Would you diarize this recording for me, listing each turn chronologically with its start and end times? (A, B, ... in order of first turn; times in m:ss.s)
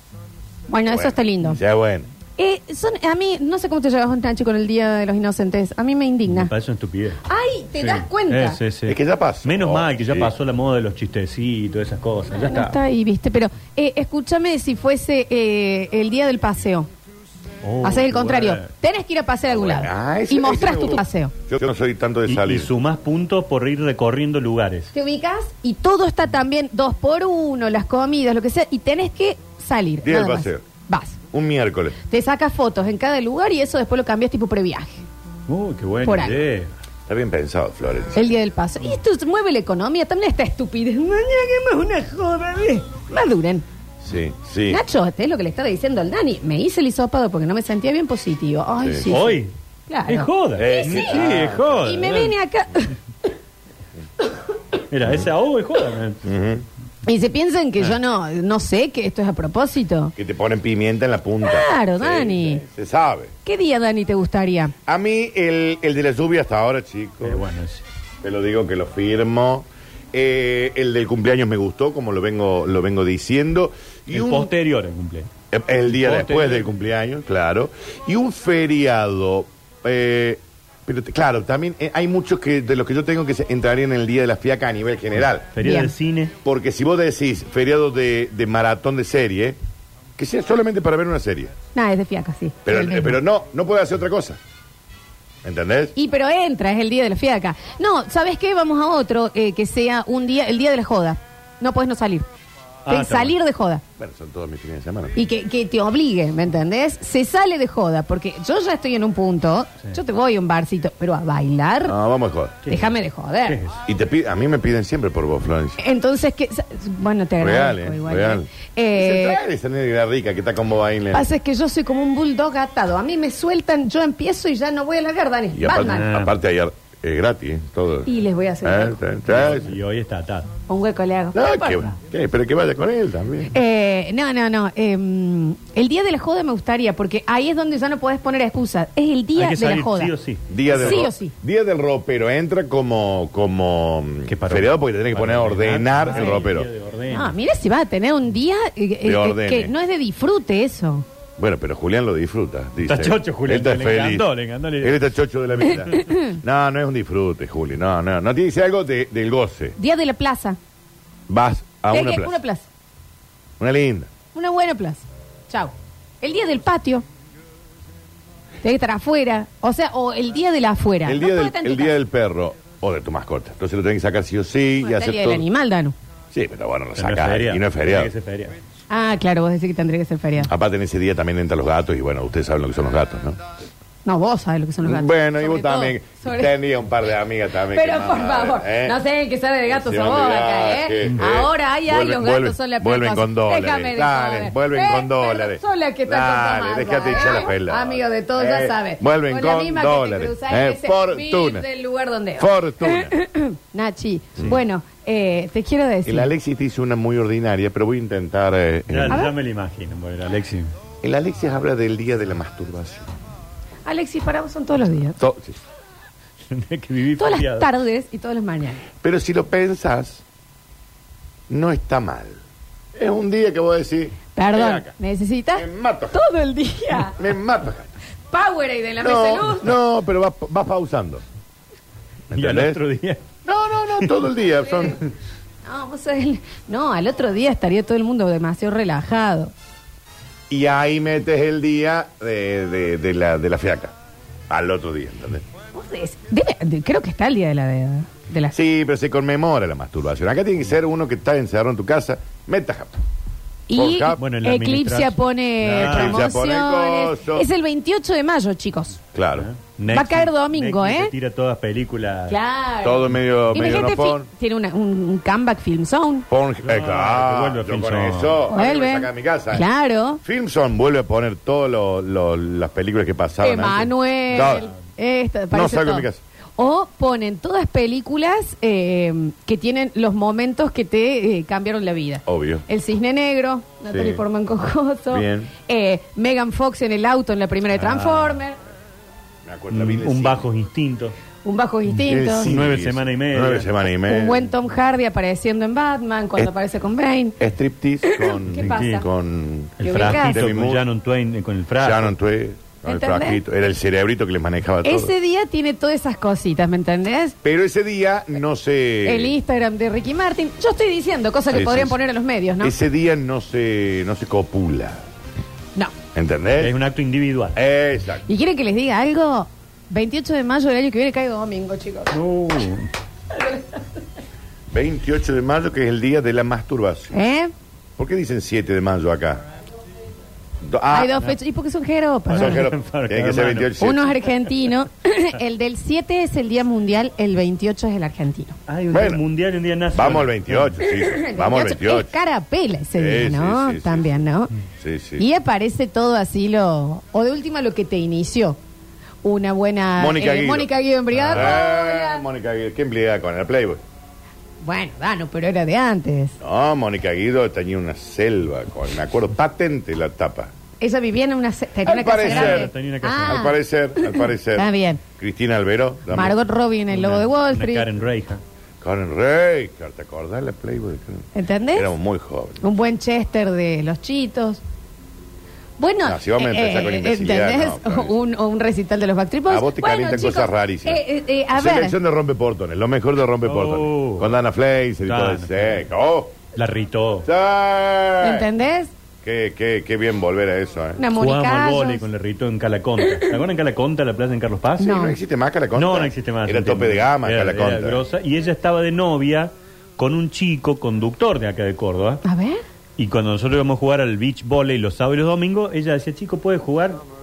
0:00.7-0:01.6 A
0:00.9-0:02.1 B
0:02.4-0:06.5 A
0:06.3-0:07.2 C
0:07.2-0:08.6 A
0:07.8-0:12.8 C
0:08.9-0:10.3 B
0:12.3-0:16.9 A
0:17.6-0:18.7 C
0:17.8-0:21.3 A
0:19.5-0:22.7 B
0:22.3-0:24.9 C
0:24.9-0:31.2 A
0:30.0-0:30.6 B
0:31.3-0:32.0 B
0:32.1-0:35.1 A
0:35.5-0:36.7 C
0:36.0-0:36.4 A
0:37.1-0:38.3 B
0:38.2-0:43.6 A
0:44.0-0:44.8 B
0:44.7-0:51.3 A
0:48.8-0:49.1 B
0:49.1-0:49.5 C
0:50.1-0:52.3 C
0:50.6-0:51.8 B
0:51.8-0:53.0 A
0:54.9-0:56.2 C
0:56.2-0:56.6 B
0:57.0-1:00.1 A
1:00.2-1:03.3 B
1:01.4-1:02.6 A
1:03.4-1:04.8 A
1:04.9-1:07.4 B
1:07.2-1:07.8 C
1:08.2-1:14.5 B
1:14.1-1:15.3 C
1:15.5-1:25.6 B
1:15.9-1:16.7 C
1:25.6-1:26.4 C
1:25.6-1:25.9 A
1:26.4-1:29.6 B
1:30.2-1:31.5 B
1:31.7-1:33.2 A
1:32.7-1:34.4 B
1:35.4-1:35.9 B
1:36.0-1:42.3 A
1:42.9-1:43.4 C
1:42.9-1:43.8 A
1:44.0-1:45.2 B
1:45.2-1:52.0 A
1:51.8-1:52.6 B
1:52.6-1:52.9 C
1:52.7-1:53.6 A
1:53.5-1:53.8 C
1:53.8-1:55.8 B
1:55.8-1:59.4 A
1:57.4-2:01.3 B
2:01.1-2:06.1 A
2:05.5-2:08.1 B
2:05.8-2:06.4 C
2:08.1-2:09.0 A
2:08.6-2:09.8 B
2:09.3-2:10.5 C
2:10.7-2:12.0 A
2:11.3-2:13.6 B
2:13.5-2:20.1 A
2:19.4-2:21.1 C
2:20.5-2:26.7 B
2:20.7-2:21.3 A
2:24.3-2:27.4 C
2:26.1-2:26.4 A
2:27.1-2:31.0 A
2:29.0-2:29.7 B
2:31.4-2:34.3 B
2:32.8-2:35.1 C
2:34.8-2:39.8 B
2:35.7-2:36.4 A
2:39.8-2:40.6 A
2:41.3-2:42.4 B
2:41.9-2:42.7 A
2:43.6-2:44.1 B
2:44.3-2:47.0 A
2:48.6-2:52.0 A
2:51.0-2:55.5 B
2:54.8-2:56.0 A
2:56.3-2:58.1 B
2:57.0-2:58.6 C
2:58.9-3:00.5 A
3:00.4-3:03.4 B
3:04.0-3:06.5 A
3:04.8-3:09.0 B
3:07.7-3:26.3 A
3:09.7-3:21.7 B
3:22.4-3:23.2 B
3:26.0-3:29.2 B
3:28.9-3:30.7 C
3:31.0-3:33.1 B
3:33.9-3:35.2 A
3:35.2-3:35.6 B
3:36.5-3:37.7 C
3:37.2-3:38.8 A
3:39.0-3:40.2 B
3:41.5-3:42.4 B
3:43.0-3:44.9 B
3:44.4-3:47.2 A
3:45.6-3:46.2 B
3:47.2-3:47.9 B
3:48.3-3:49.8 A
3:49.0-3:51.2 B
3:52.3-3:52.8 B
3:52.3-3:53.2 C
3:53.4-3:55.0 B
3:55.6-3:59.5 A
4:00.5-4:04.0 B
4:04.5-4:05.4 B
4:05.7-4:08.6 A
4:08.5-4:12.9 B
4:13.7-4:19.0 A
4:13.8-4:14.2 B
4:14.2-4:16.2 C
4:15.7-4:17.5 B
4:19.1-4:19.5 B
4:19.4-4:22.4 C
4:19.9-4:21.1 A
4:22.3-4:26.3 A
4:22.8-4:24.3 B
4:26.3-4:29.7 B
4:26.6-4:28.4 C
4:28.5-4:30.2 A
4:30.2-4:34.7 B
4:33.4-4:36.1 A
4:34.3-4:34.7 C
4:35.5-4:36.2 B
4:36.6-4:48.6 A
4:42.3-4:42.6 B
4:43.9-4:44.2 B
4:45.1-4:45.5 B
4:47.8-4:48.4 C
4:49.5-4:50.5 B
4:49.7-4:51.2 C
4:51.4-4:52.5 A
4:52.0-4:54.5 B
4:52.3-4:53.7 C
4:54.0-4:57.4 A
4:57.4-5:00.8 B
4:58.0-4:59.1 A
4:58.6-4:59.1 C
4:59.8-5:02.1 C
4:59.8-5:00.4 A
5:01.8-5:05.1 B
5:02.9-5:03.4 A
5:04.8-5:07.4 A
5:07.4-5:09.4 B
5:09.0-5:12.8 A
5:11.5-5:12.0 B
5:12.6-5:15.0 B
5:16.1-5:16.7 B
5:16.6-5:17.6 C
5:17.6-5:18.2 B
5:18.3-5:22.2 A
5:22.1-5:22.9 C
5:23.3-5:23.9 A
5:24.7-5:27.1 B
5:27.1-5:27.5 A
5:28.0-5:29.5 B
5:30.6-5:31.1 B
5:30.9-5:32.7 A
5:32.3-5:33.9 C
5:32.3-5:34.2 B
5:33.8-5:38.6 A
5:38.7-5:40.8 C
5:38.9-5:39.2 B
5:39.9-5:42.1 B
5:40.8-5:44.5 A
5:43.0-5:44.2 B
5:44.8-5:45.2 B
5:45.2-5:48.6 A
5:49.2-5:52.2 A
5:50.0-5:50.7 B
5:51.1-5:51.6 C
5:51.2-5:53.8 B
5:54.6-5:56.4 A
5:56.4-6:00.5 B
6:00.8-6:05.0 A
6:01.8-6:02.7 B
6:02.2-6:03.5 C
6:03.2-6:06.4 B
6:06.1-6:07.9 A
6:06.9-6:08.4 C
6:08.8-6:12.7 B
6:11.3-6:11.9 A
6:12.6-6:14.6 A
6:15.8-6:22.0 A
6:16.0-6:18.2 B
6:19.5-6:21.0 B
6:21.6-6:26.4 B
6:23.4-6:24.3 C
6:25.1-6:25.8 C
6:26.6-6:27.3 C
6:27.2-6:28.5 B
6:28.2-6:28.9 A
6:29.2-6:31.0 B
6:31.0-6:32.0 A
6:31.2-6:35.0 C
6:33.0-6:33.3 A
6:34.8-6:35.2 A
6:34.8-6:38.0 B
6:35.8-6:42.2 C
6:42.2-6:42.6 A
6:43.0-6:47.0 C